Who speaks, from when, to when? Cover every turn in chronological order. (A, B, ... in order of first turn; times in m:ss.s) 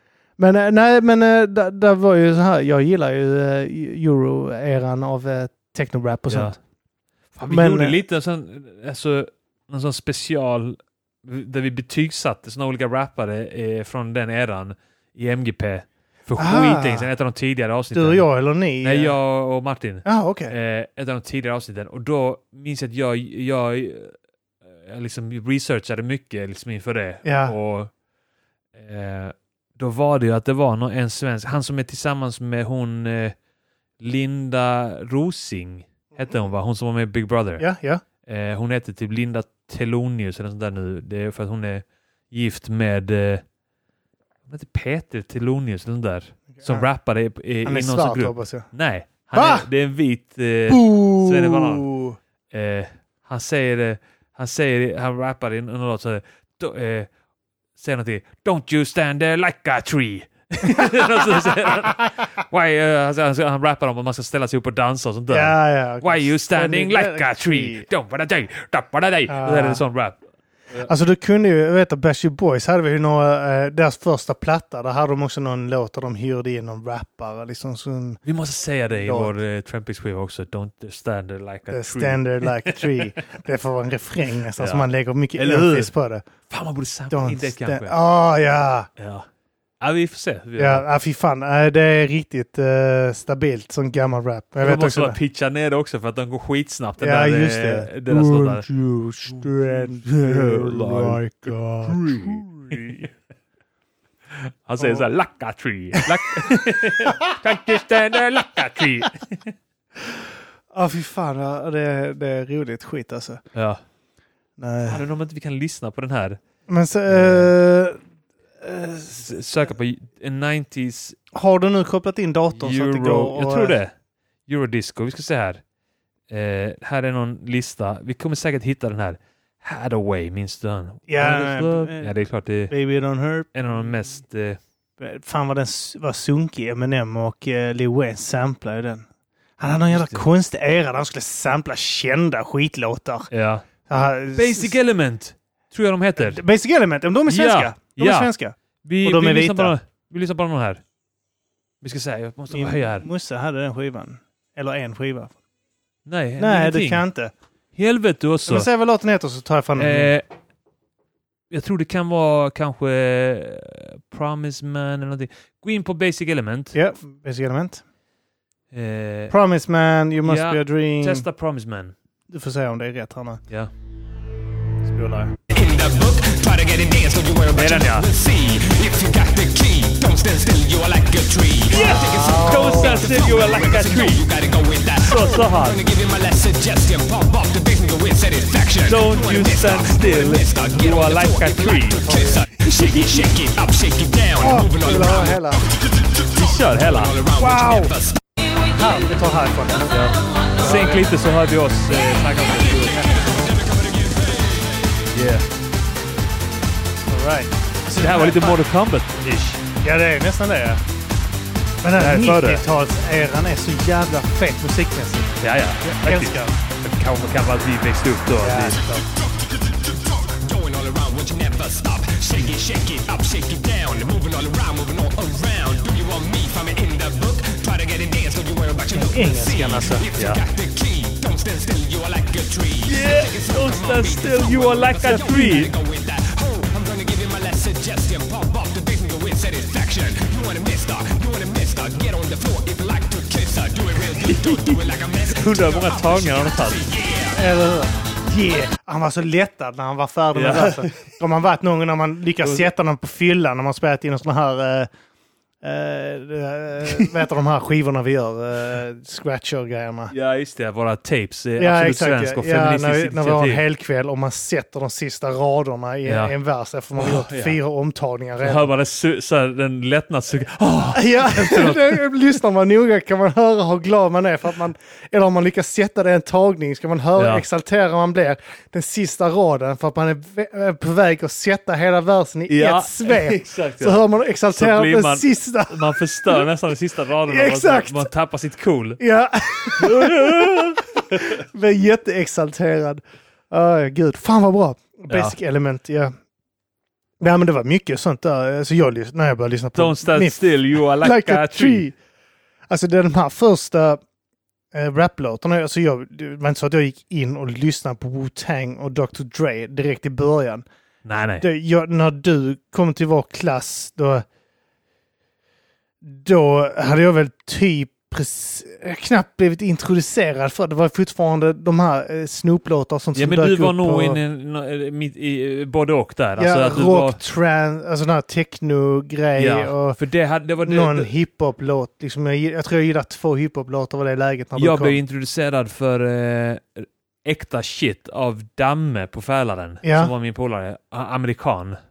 0:00.4-0:06.6 A
0:06.3-0:06.6 B
0:07.3-0:18.2 B
0:07.5-0:08.0 A
0:16.4-0:17.1 A
0:17.9-0:19.2 A
0:18.8-0:24.2 B
0:20.0-0:20.5 A
0:24.7-0:27.9 B
0:27.2-0:27.5 A
0:28.7-0:33.4 B
0:34.0-0:37.6 B
0:37.6-0:38.0 A
0:38.2-0:43.4 B
0:44.5-0:51.9 B
0:46.6-0:46.8 A
0:47.6-0:48.7 A
0:49.3-0:49.7 A
0:50.7-0:52.2 A
0:52.5-0:57.1 B
0:57.8-1:10.2 B
1:00.7-1:01.0 A
1:05.3-1:07.9 A
1:09.3-1:09.8 A
1:10.8-1:18.2 A
1:18.2-1:23.1 B
1:19.0-1:19.3 A
1:21.7-1:26.3 A
1:24.6-1:25.9 B
1:26.5-1:28.0 B
1:27.1-1:28.9 A
1:29.0-1:29.3 B
1:29.8-1:30.8 B
1:30.6-1:35.2 A
1:34.6-1:38.6 B
1:37.0-1:43.0 A
1:39.2-1:43.1 B
1:44.3-1:49.5 B
1:44.8-1:45.0 A
1:47.0-1:47.3 A
1:50.7-1:53.4 A
1:53.5-1:53.8 B
1:54.6-1:55.0 A
1:54.8-1:56.4 B
1:56.7-1:58.0 A
1:57.1-1:57.5 B
1:58.6-1:59.3 A
1:59.1-2:01.2 B
2:01.3-2:03.8 A
2:02.6-2:03.9 B
2:04.5-2:05.6 B
2:06.3-2:12.7 B
2:11.1-2:12.1 A
2:12.7-2:13.6 A
2:13.5-2:14.6 B
2:15.0-2:19.0 A
2:19.6-2:23.3 A
2:19.9-2:20.2 B
2:23.3-2:23.7 B
2:23.8-2:24.7 A
2:24.3-2:26.4 B
2:26.2-2:29.7 A
2:27.3-2:30.8 B
2:31.8-2:33.0 B
2:32.5-2:35.3 A
2:36.0-2:37.0 B
2:36.4-2:37.3 A
2:37.7-2:38.7 B
2:38.4-2:40.1 A
2:39.8-2:40.2 B
2:41.5-2:46.8 B
2:46.7-2:47.8 A
2:48.7-2:49.3 B
2:49.3-2:51.2 A
2:50.2-2:51.9 B
2:52.3-2:53.4 A
2:54.8-2:55.3 A
2:55.5-3:18.2 C
2:57.5-2:58.1 B
3:01.7-3:04.2 B
3:01.8-3:03.1 A
3:05.0-3:05.8 B
3:08.8-3:12.1 B
3:12.0-3:12.4 A
3:12.6-3:13.2 B
3:14.4-3:15.7 A
3:16.3-3:17.1 B
3:17.4-3:17.9 A
3:18.7-3:19.9 A
3:19.9-3:23.1 B
3:20.5-3:21.1 A
3:22.7-3:24.8 C
3:22.9-3:23.5 A
3:25.1-3:25.5 B
3:27.0-3:28.6 A
3:27.9-3:29.6 B
3:29.8-3:30.8 A
3:31.8-3:36.6 A
3:31.9-3:32.6 B
3:35.4-3:38.8 B
3:38.4-3:39.0 A
3:39.9-4:07.4 C
3:48.9-3:50.0 A
3:52.8-3:55.7 B
4:04.2-4:06.9 B
4:07.3-4:14.9 A
4:10.3-4:11.1 B
4:12.4-4:12.7 B
4:15.6-4:20.1 A
4:20.1-4:23.6 B
4:21.6-4:28.7 A
4:26.0-4:26.3 B
4:27.0-4:27.6 B
4:28.4-4:32.0 B
4:30.9-4:46.5 A
4:37.2-4:37.4 B
4:42.5-4:49.0 B
4:47.3-4:48.1 A
4:49.0-4:56.1 A
4:49.7-4:51.4 B
4:55.1-4:55.4 B
4:57.2-5:02.0 A
4:59.7-5:01.8 B
5:02.7-5:04.0 A
5:04.7-5:10.6 A
5:11.0-5:11.5 B
5:11.4-5:14.2 A
5:16.0-5:24.2 A
5:23.1-5:27.2 B
5:26.4-5:30.0 A
5:29.4-5:31.1 B
5:30.6-5:35.0 A
5:34.6-5:41.8 B
5:39.8-5:40.1 A